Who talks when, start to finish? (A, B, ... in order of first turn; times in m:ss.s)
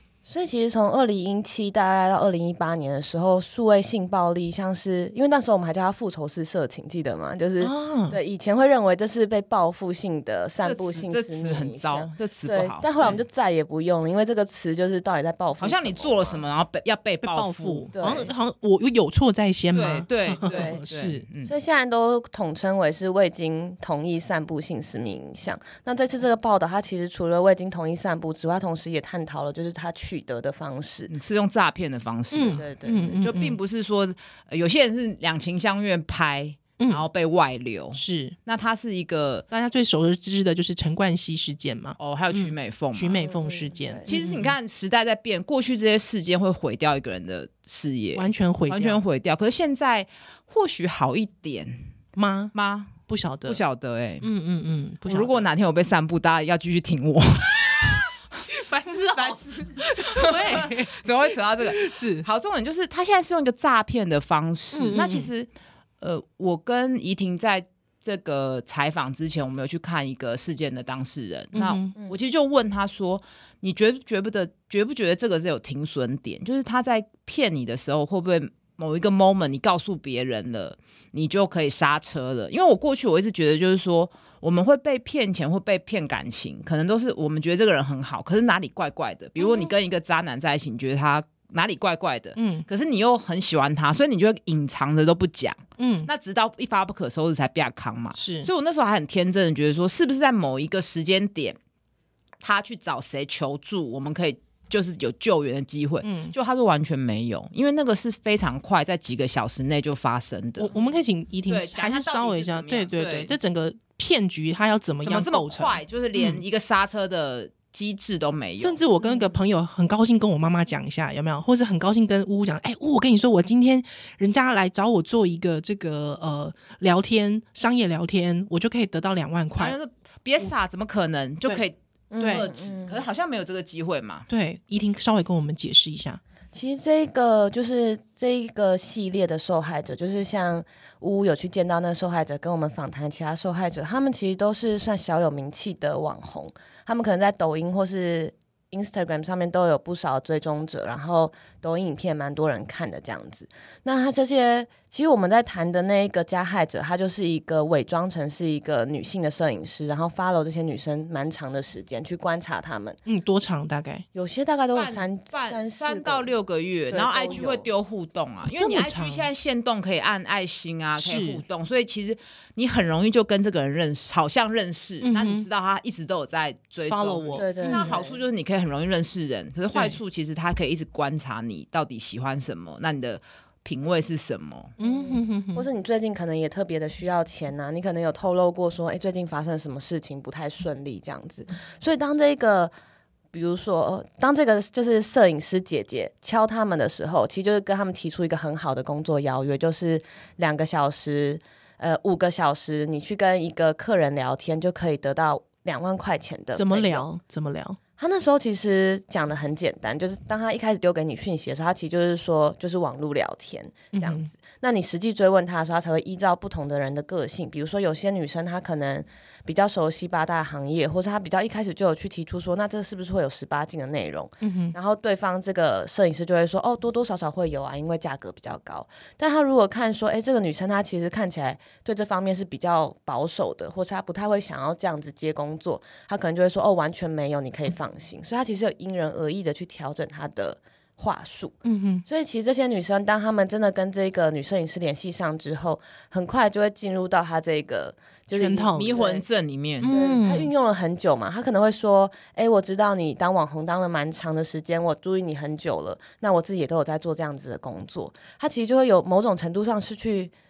0:00.3-0:16.4 A
0:07.6-0:08.2 B
0:10.6-0:12.9 C
0:15.6-0:17.9 C
0:17.2-0:21.3 B
0:17.9-0:18.3 A
0:19.7-0:21.5 C
0:20.4-0:20.8 A
0:21.5-0:31.1 A
0:31.1-0:39.5 C
0:32.3-0:33.6 B
0:32.5-0:33.2 A
0:36.8-0:37.0 B
0:38.0-0:38.4 B
0:39.5-0:44.6 B
0:42.0-0:43.2 C
0:43.2-0:44.1 A
0:44.1-0:51.9 C
0:48.2-0:49.0 B
0:52.2-0:52.5 B
0:52.5-0:54.3 C
0:53.1-0:53.6 B
0:54.2-0:55.5 B
0:55.1-0:58.1 C
0:58.5-1:01.0 B
0:58.9-1:05.5 C
1:01.6-1:02.3 B
1:04.7-1:05.3 B
1:06.0-1:41.6 C
1:11.5-1:11.9 B
1:32.4-1:32.6 B
1:35.8-1:36.1 B
1:38.2-1:38.5 B
1:42.4-1:50.7 C
1:46.0-1:46.3 B
1:50.6-1:56.4 B
1:51.5-1:53.3 C
1:55.0-1:58.8 C
1:58.6-2:09.8 B
1:59.0-1:59.4 A
2:09.6-2:14.3 C
2:12.1-2:13.0 A
2:12.2-2:12.5 B
2:14.3-2:16.2 B
2:16.5-2:43.0 A
2:43.1-2:44.0 B
2:44.2-2:46.3 A
2:44.7-3:04.7 C
2:46.9-2:47.7 A
2:48.5-2:49.3 B
2:51.0-2:51.4 B
2:55.0-2:55.5 B
2:56.9-2:57.9 B
2:57.4-2:58.2 A
2:59.7-3:00.0 B
3:04.8-3:05.7 B
3:04.8-3:12.7 A
3:13.3-3:27.1 A
3:26.6-3:27.8 B
3:28.0-4:09.2 A
3:33.9-3:34.3 B
3:44.4-3:44.8 B
4:01.6-4:02.0 B
4:08.3-4:08.9 B
4:08.8-4:09.9 C
4:09.8-4:10.5 B
4:09.9-4:20.3 A